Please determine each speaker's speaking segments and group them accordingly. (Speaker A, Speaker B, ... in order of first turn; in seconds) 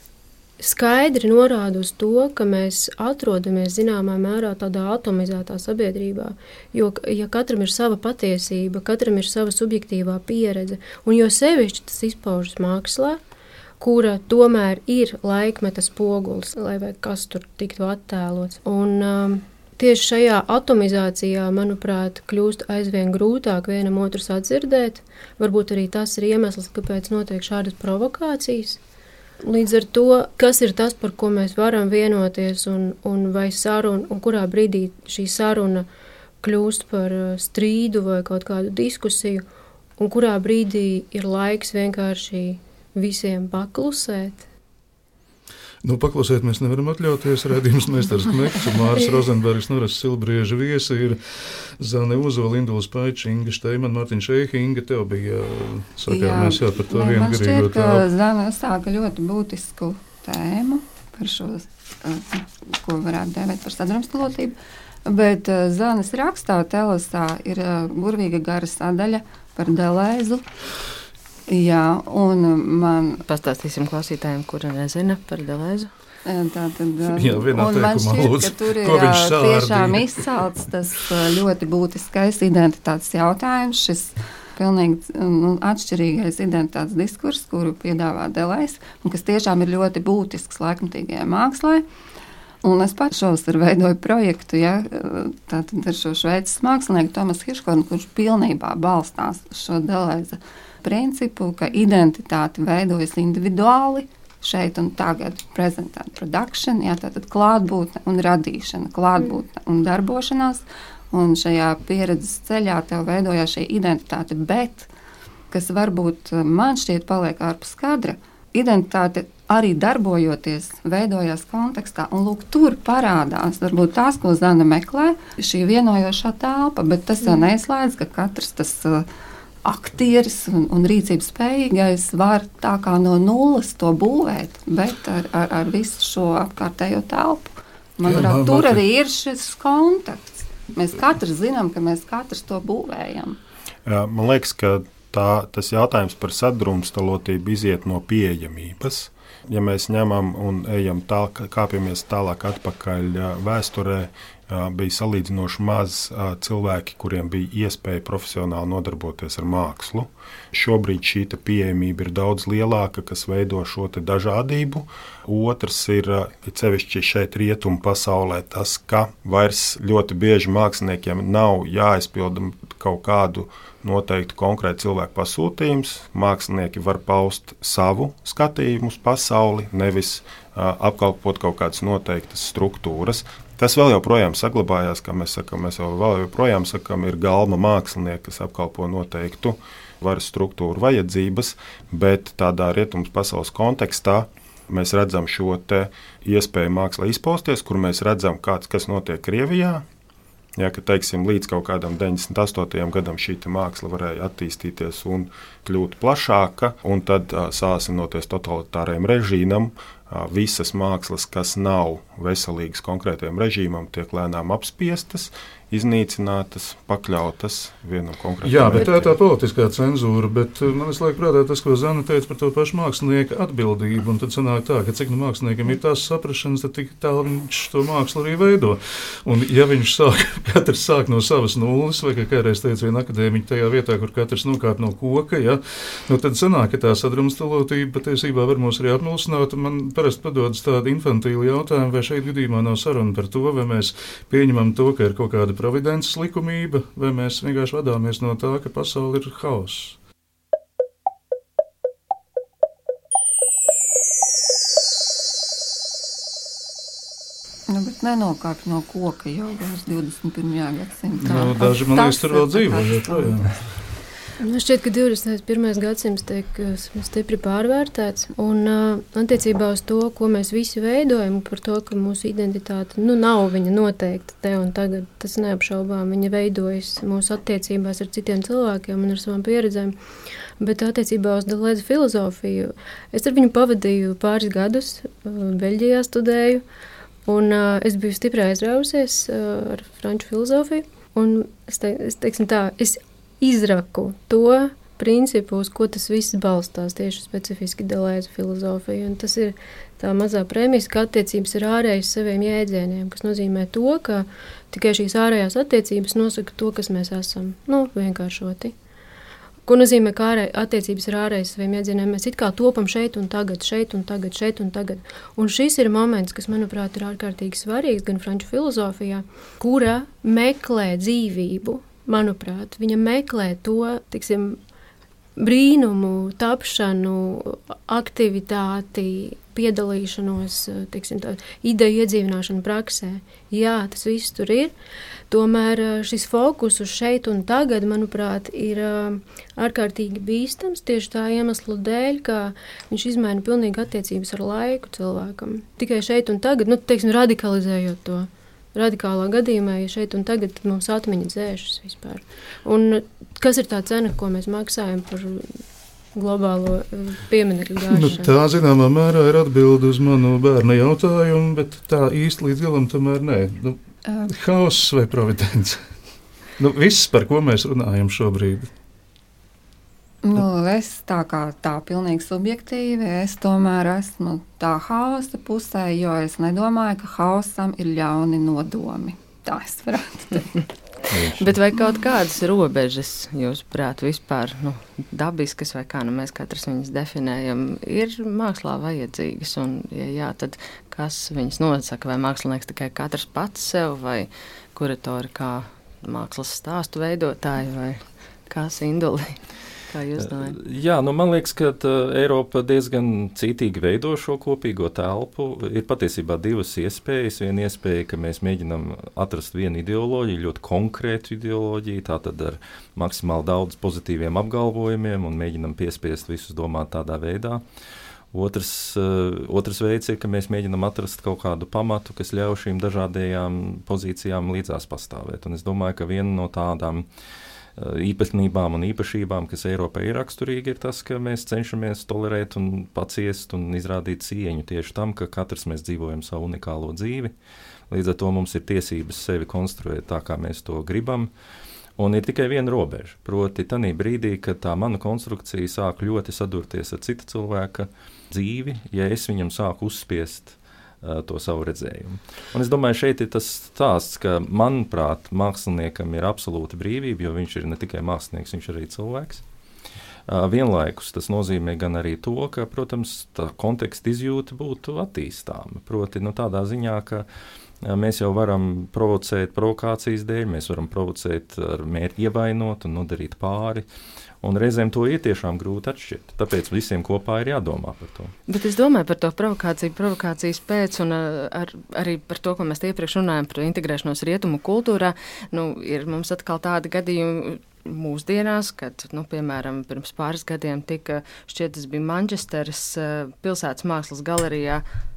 Speaker A: 0.6-13.2, 13.8-28.8, 29.4-35.9, 36.4-39.4, 40.0-44.5, 264.4-279.9, 280.6-286.6, 287.3-308.8, 309.7-324.6, 325.4-334.7, 335.3-355.6, 356.1-358.3
Speaker B: 45.8-58.1, 77.1-80.2, 138.0-138.8, 218.4-250.0, 261.2-263.6, 357.9-365.9, 366.6-368.7
Speaker C: 56.1-70.5, 71.5-73.2, 76.2-91.9, 92.6-114.9, 115.5-129.1, 129.6-143.4, 257.7-263.5, 364.1-364.3, 370.2-380.5
Speaker D: 73.2-75.9, 381.4-400.6, 478.5-494.8
Speaker E: 143.9-199.8, 200.6-219.2
Speaker F: 400.2-417.6, 418.3-427.1, 427.8-437.3, 437.9-441.3, 442.0-459.4, 460.3-467.2, 467.8-473.9, 474.4-478.3